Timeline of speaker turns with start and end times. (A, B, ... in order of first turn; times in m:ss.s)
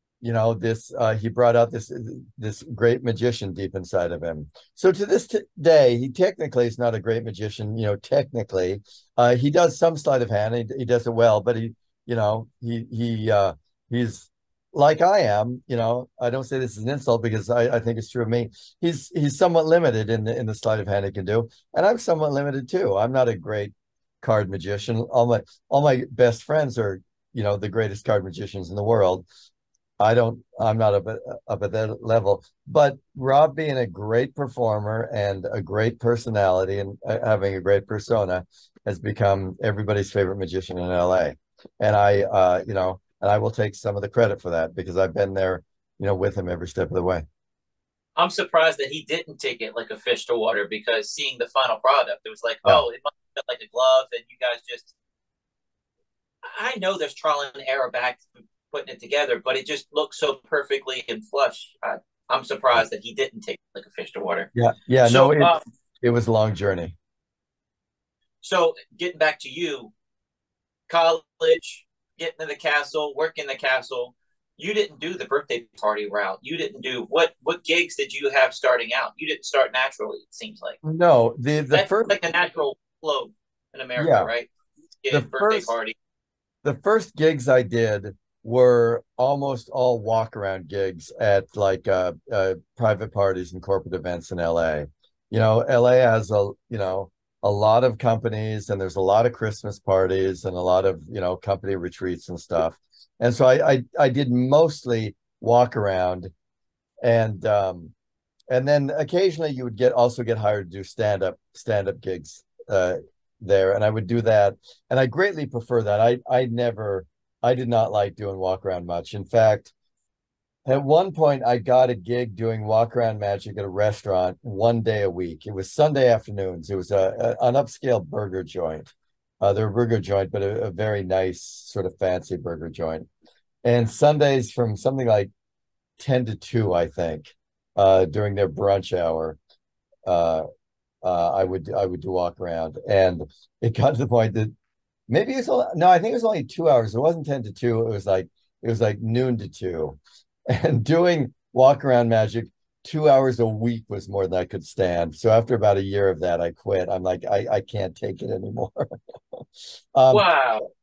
0:00.2-0:29.2 A
0:30.0-0:47.2 A
0:48.2-0:54.9 B
0:56.5-1:04.5 B
1:04.5-1:06.9 A
1:05.0-1:05.6 B
1:08.4-1:09.9 B
1:10.9-1:20.8 B
1:20.8-1:22.2 A
1:21.7-1:24.5 B
1:24.0-1:24.3 A
1:25.0-1:25.9 B
1:25.1-1:25.7 A
1:26.6-1:46.3 A
1:47.0-1:47.9 A
1:48.5-1:59.7 A
2:00.6-2:13.1 A
2:13.6-2:15.3 A
2:16.0-2:19.4 A
2:20.0-2:20.4 A
2:21.0-2:24.5 A
2:25.1-2:40.3 A
2:40.1-2:40.6 B